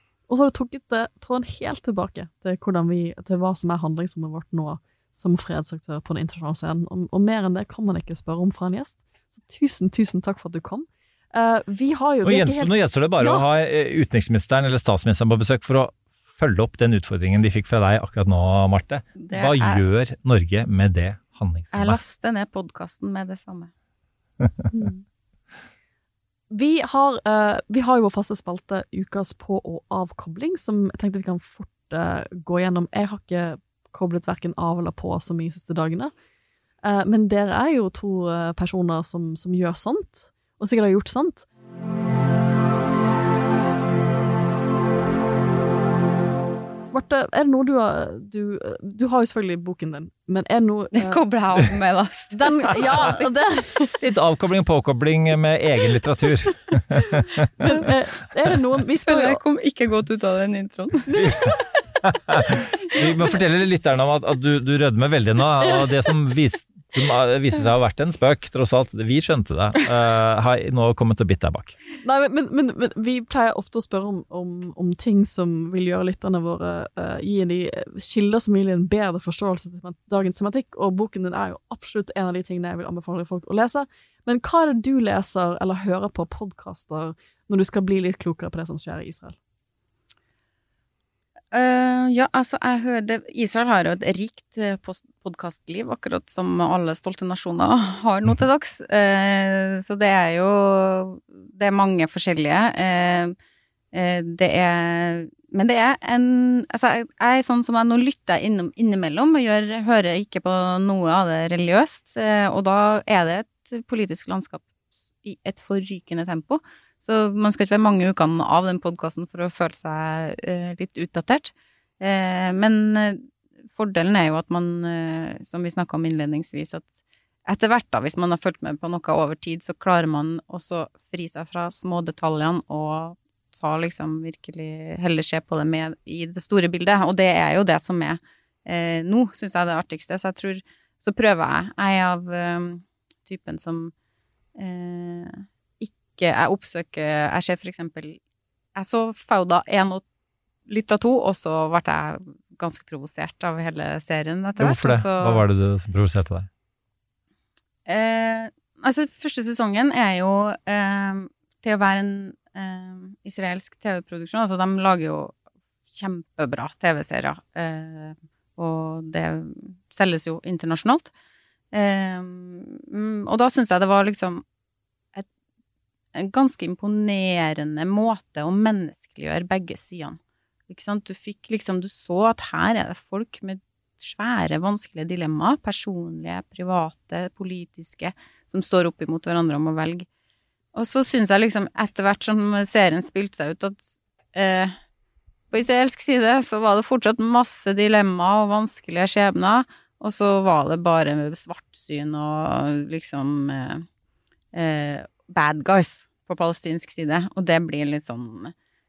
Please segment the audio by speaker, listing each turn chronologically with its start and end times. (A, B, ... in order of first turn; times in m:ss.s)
0:00.3-0:13.4 A
0:12.2-0:22.0 B
0:19.2-0:19.8 C
0:21.7-0:23.7 C
0:24.7-0:25.0 A
0:26.5-0:36.1 A
0:36.8-0:41.5 A
0:46.9-0:51.2 A
0:51.0-0:53.3 C
0:52.3-0:53.9 A
0:54.0-0:57.7 B
0:57.6-0:59.4 A
0:59.0-1:01.3 C
1:01.2-1:01.6 A
1:02.0-1:11.8 B
1:12.0-1:29.4 A
1:31.5-1:43.3 C
1:43.9-2:23.9 C
2:24.6-2:28.2 C
2:28.8-2:30.0 C
2:30.7-2:35.4 C
2:34.6-2:36.5 B
2:37.9-2:45.3 C
2:45.9-2:51.1 C
2:51.7-2:54.4 C
2:56.1-3:00.2 C
3:00.7-3:10.1 C
3:10.7-3:14.7 C
3:15.5-3:23.8 C
3:24.5-3:28.5 C